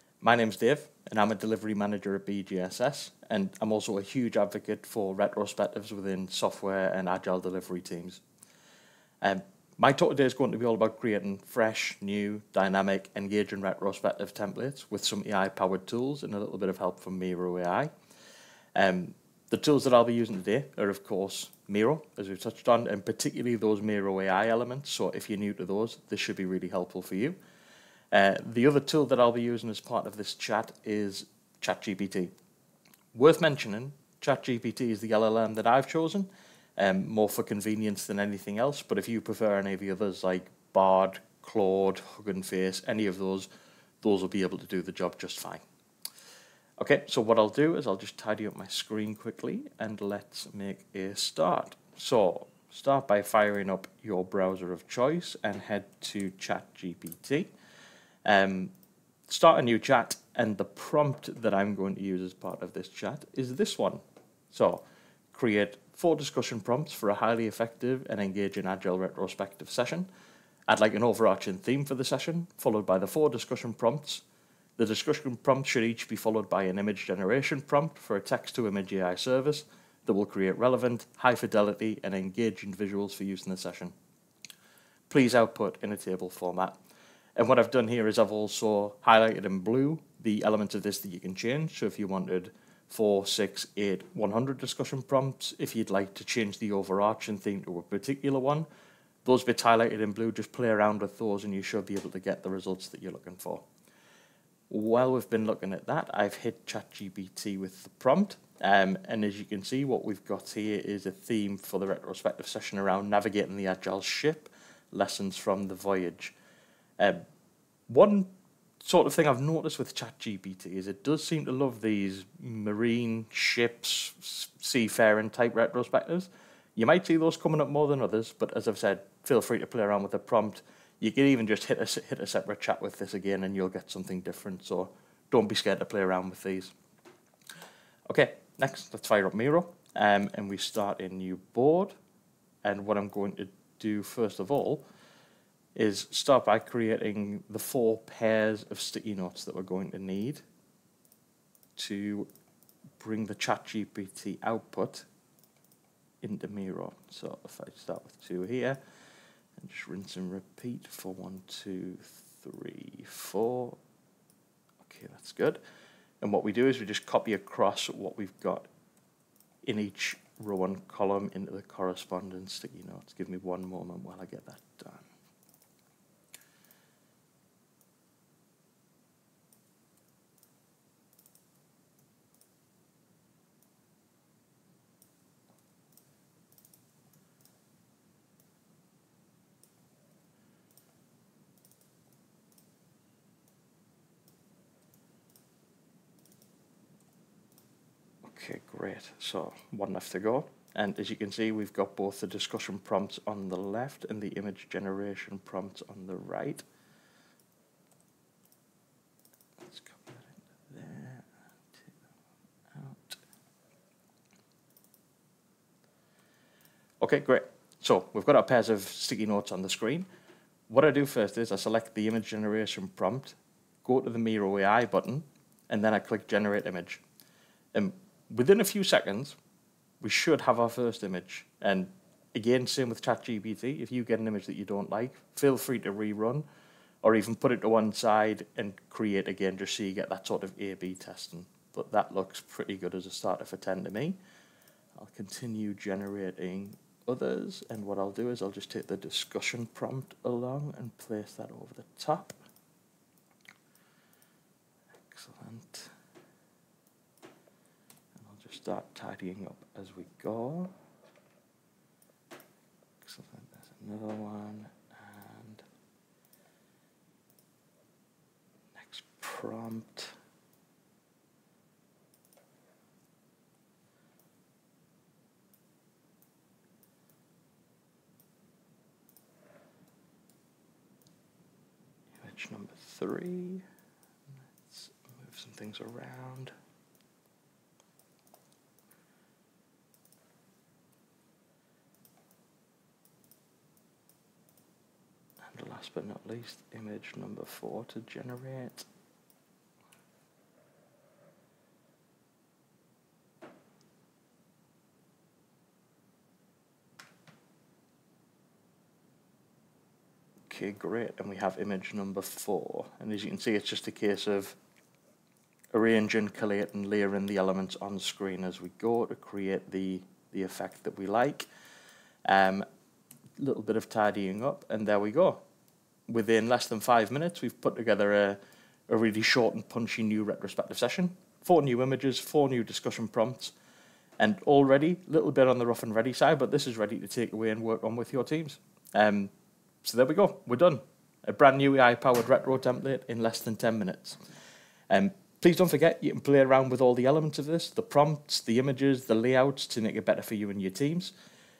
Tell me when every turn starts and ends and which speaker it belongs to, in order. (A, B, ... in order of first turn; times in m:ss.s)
0:00.2-0:08.2 A
0:09.2-0:17.9 A
0:18.7-0:27.4 A
0:28.1-0:32.3 A
0:33.1-0:43.5 A
0:44.0-0:45.6 A
0:46.8-0:57.5 A
0:58.2-0:58.7 A
0:59.3-1:10.1 A
1:10.7-1:14.2 A
1:14.8-1:23.9 A
1:25.1-1:26.8 A
1:27.4-1:38.7 A
1:39.2-1:43.6 A
1:44.7-1:56.3 A
1:57.0-1:57.2 A
1:57.9-2:16.7 A
2:18.1-2:21.9 A
2:22.6-2:24.8 A
2:25.7-2:30.4 A
2:31.8-2:32.3 A
2:33.0-2:35.0 A
2:36.2-2:38.8 A
2:39.6-2:43.8 A
2:44.8-2:45.6 A
2:46.2-2:48.7 A
2:49.6-2:55.1 A
3:18.2-3:26.6 A
3:29.6-3:32.0 A
3:32.7-3:33.2 A
3:37.0-3:40.1 A
3:40.7-3:47.0 A
3:47.7-3:49.4 A
3:50.0-3:56.4 A
3:57.0-4:04.2 A
4:04.9-4:12.3 A
4:15.1-4:15.9 A
4:18.1-4:20.7 A
4:23.0-4:25.6 A
4:28.7-4:30.2 A
4:42.2-4:43.6 A
4:44.6-4:46.5 A
4:55.4-4:58.9 A
5:10.5-5:14.6 A
5:15.7-5:21.5 A
5:22.2-5:22.6 A
5:23.4-5:25.4 A
5:26.1-5:33.5 A
5:34.2-5:39.3 A
5:39.8-5:44.2 A
5:44.9-5:51.1 A